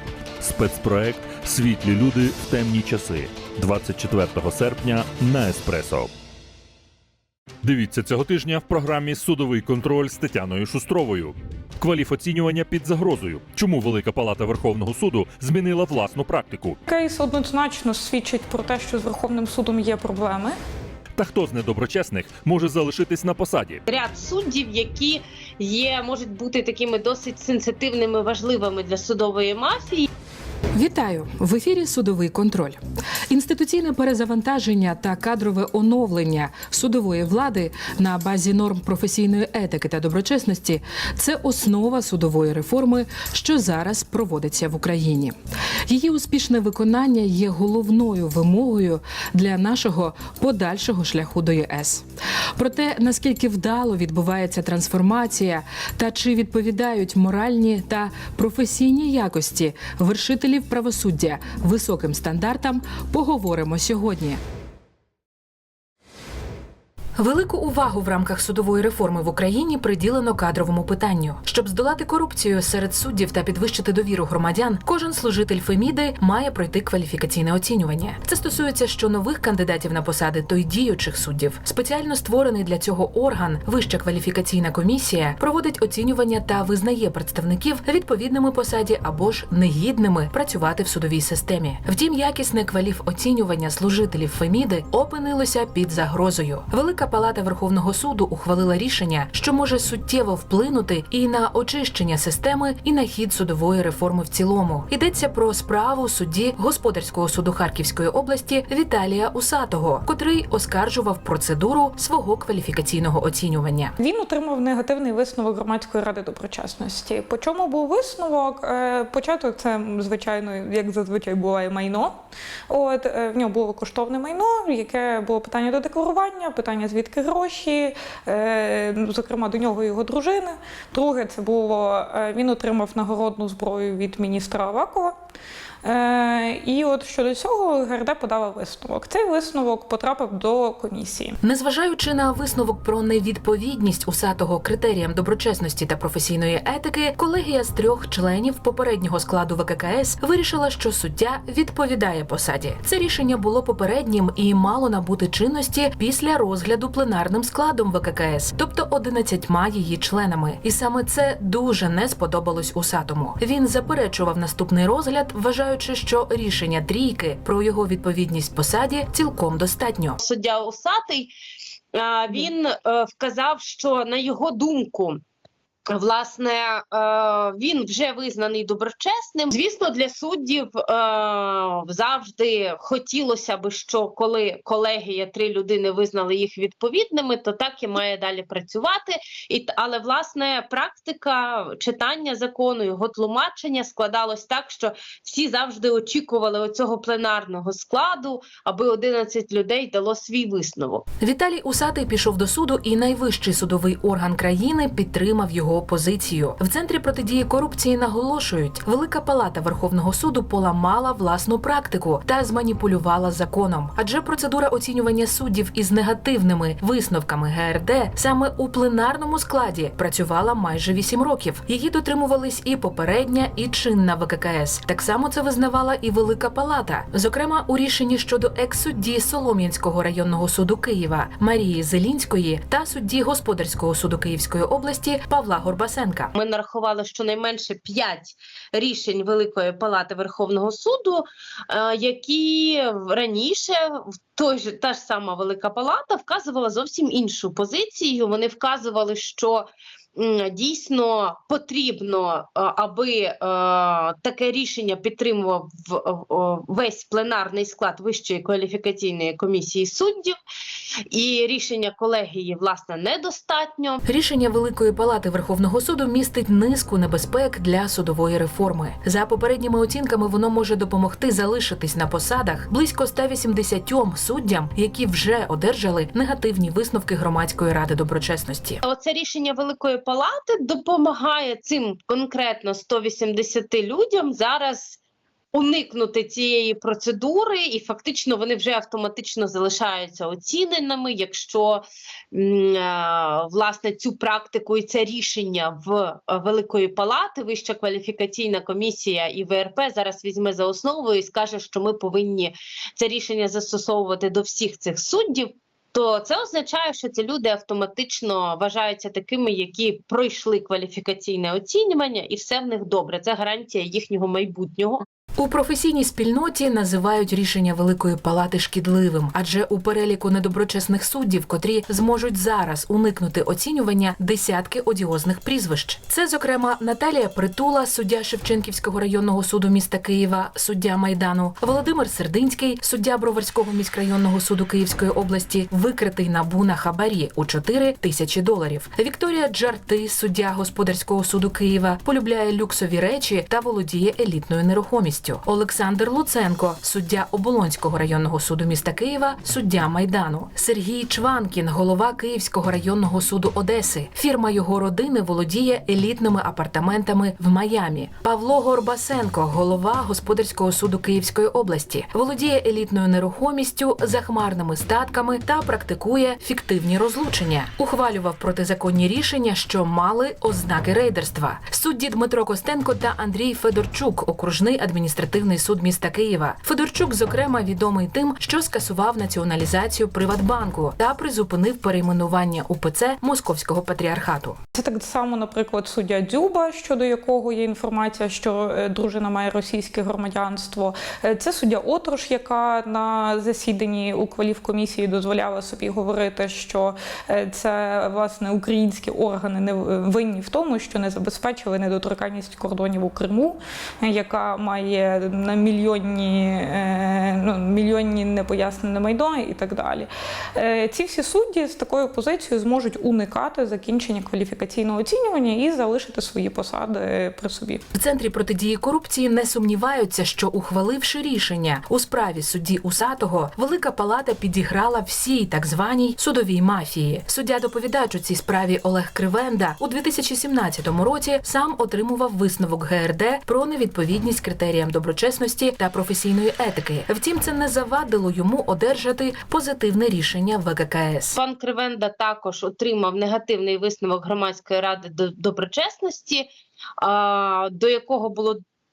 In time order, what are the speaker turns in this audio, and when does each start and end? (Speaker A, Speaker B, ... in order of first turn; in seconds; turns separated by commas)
Speaker A: 0.4-6.1, Speaker A: 7.6-16.8, Speaker B: 16.9-20.6, Speaker A: 21.2-23.8, Speaker C: 23.9-30.1, Speaker D: 30.7-45.3, Speaker D: 45.9-52.0, Speaker D: 52.6-64.4, Speaker D: 67.2-113.9, Speaker B: 114.0-122.1, Speaker B: 122.7-135.2, Speaker B: 135.8-141.4, Speaker D: 141.4-170.2, Speaker C: 170.2-171.3, Speaker C: 171.9-175.2, Speaker C: 175.9-201.0, Speaker D: 201.2-236.3, Speaker C: 236.3-260.3, Speaker C: 261.1-264.0, Speaker D: 264.0-278.8, Speaker C: 278.8-285.0, Speaker C: 285.5-315.0, Speaker D: 315.4-384.6, Speaker B: 384.7-417.8, Speaker D: 417.9-441.4, Speaker C: 441.4-446.5, Speaker C: 447.0-448.6